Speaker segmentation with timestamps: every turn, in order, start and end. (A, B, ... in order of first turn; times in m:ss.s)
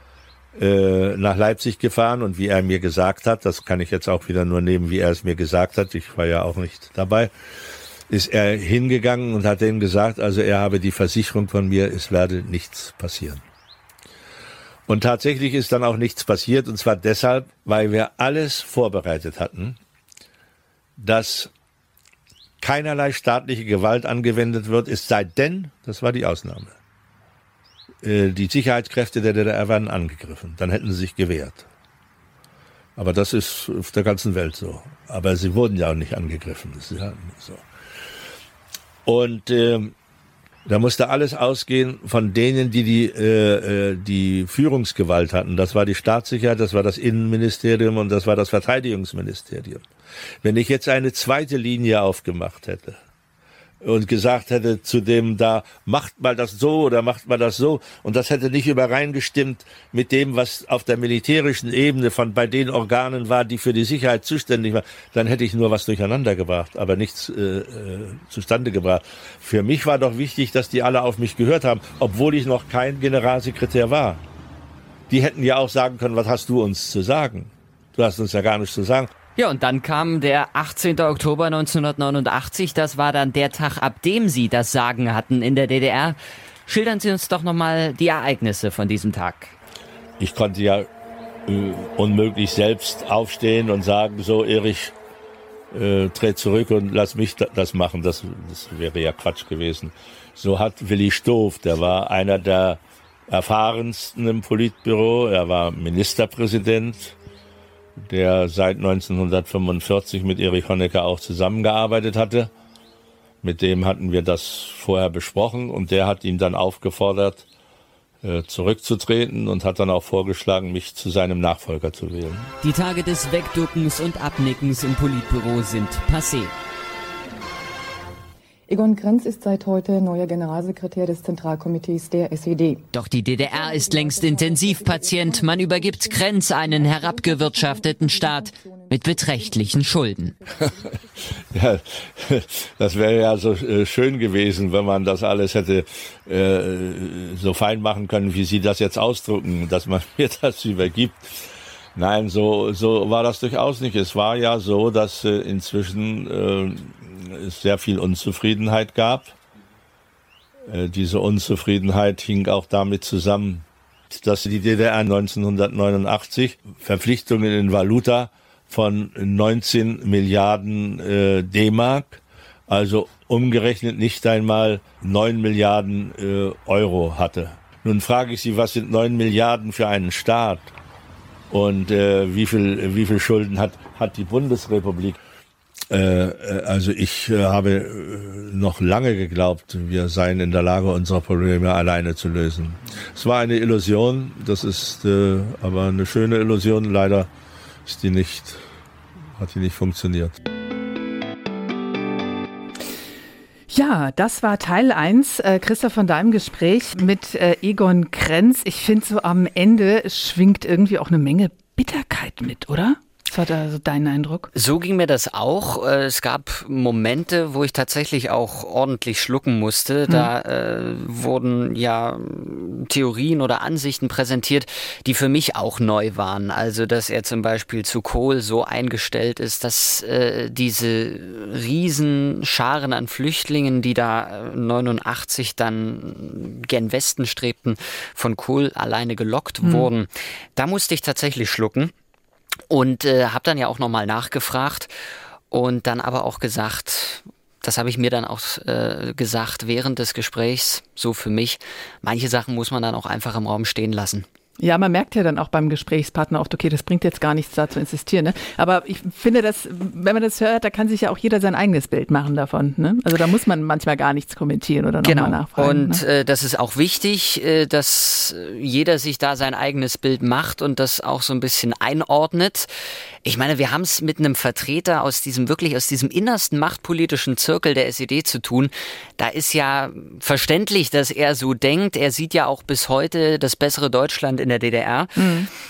0:00.6-0:07.3 A
0:08.1-0:13.4 A
0:14.9-0:19.8 A
0:21.0-0:21.5 A
0:22.6-0:26.8 A
0:28.0-0:31.7 A
0:33.0-0:37.6 A
0:39.1-0:39.9 A
0:40.7-0:49.8 A
0:50.4-0:53.0 A
0:53.8-1:14.2 A
1:15.1-1:19.1 A
1:19.4-1:29.5 B
1:30.2-1:30.9 A
1:31.5-1:35.0 A
1:35.7-1:47.2 A
1:48.0-1:52.5 A
1:53.4-1:57.5 A
1:58.2-2:02.5 A
2:02.6-2:06.6 B
2:08.7-2:12.9 C
2:12.9-2:20.4 B
2:13.4-2:21.4 C
2:21.5-2:39.4 A
2:40.7-3:00.7 A
3:01.5-3:05.2 A
3:05.9-3:17.3 A
3:17.9-3:18.6 A
3:19.4-3:20.4 A
3:23.7-3:34.5 D
3:34.6-4:01.9 B
3:59.6-3:59.9 D
4:02.7-4:04.9 B
4:05.5-4:14.3 B
4:14.6-4:26.0 D
4:25.0-4:32.7 B
4:33.2-4:45.2 B
4:45.2-4:45.5 D